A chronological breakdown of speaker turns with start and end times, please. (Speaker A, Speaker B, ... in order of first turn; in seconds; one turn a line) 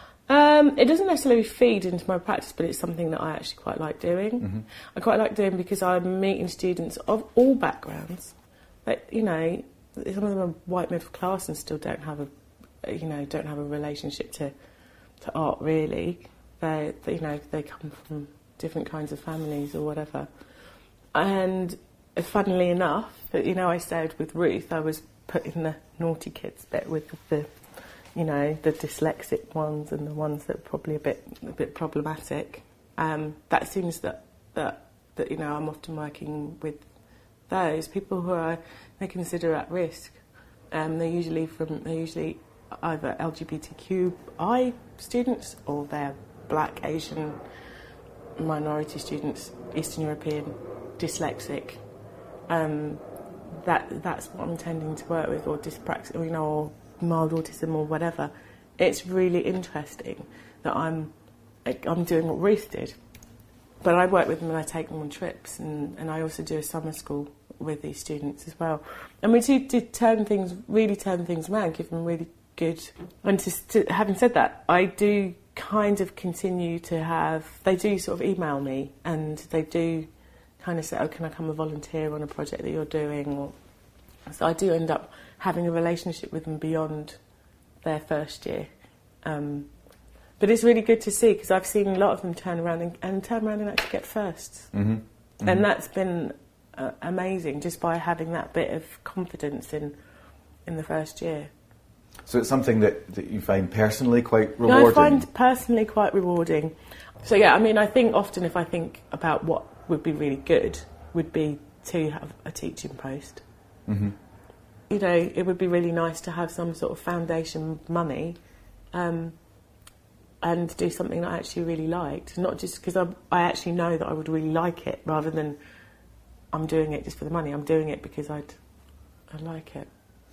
Speaker A: 0.3-8.3
Speaker A: 8.8-12.3
Speaker A: 12.8-14.5
Speaker A: 15.2-20.3
Speaker A: 21.1-27.5
Speaker A: 28.1-36.8
Speaker A: 37.5-40.2
Speaker A: 40.7-47.4
Speaker A: 48.4-51.8
Speaker A: 52.5-61.1
Speaker A: 61.6-62.9
Speaker A: 63.8-80.1
Speaker A: 80.6-83.5
Speaker A: 84.3-87.2
Speaker A: 87.8-88.7
Speaker A: 89.2-89.7
Speaker A: 90.4-94.7
Speaker B: 94.7-95.7
Speaker A: 95.4-100.0
Speaker A: 100.7-101.5
Speaker B: 102.3-105.3
Speaker A: 104.7-113.4
Speaker B: 113.9-114.1
Speaker A: 114.9-118.4
Speaker A: 118.9-119.3
Speaker A: 120.4-125.6
Speaker A: 126.5-128.6
Speaker A: 129.3-129.9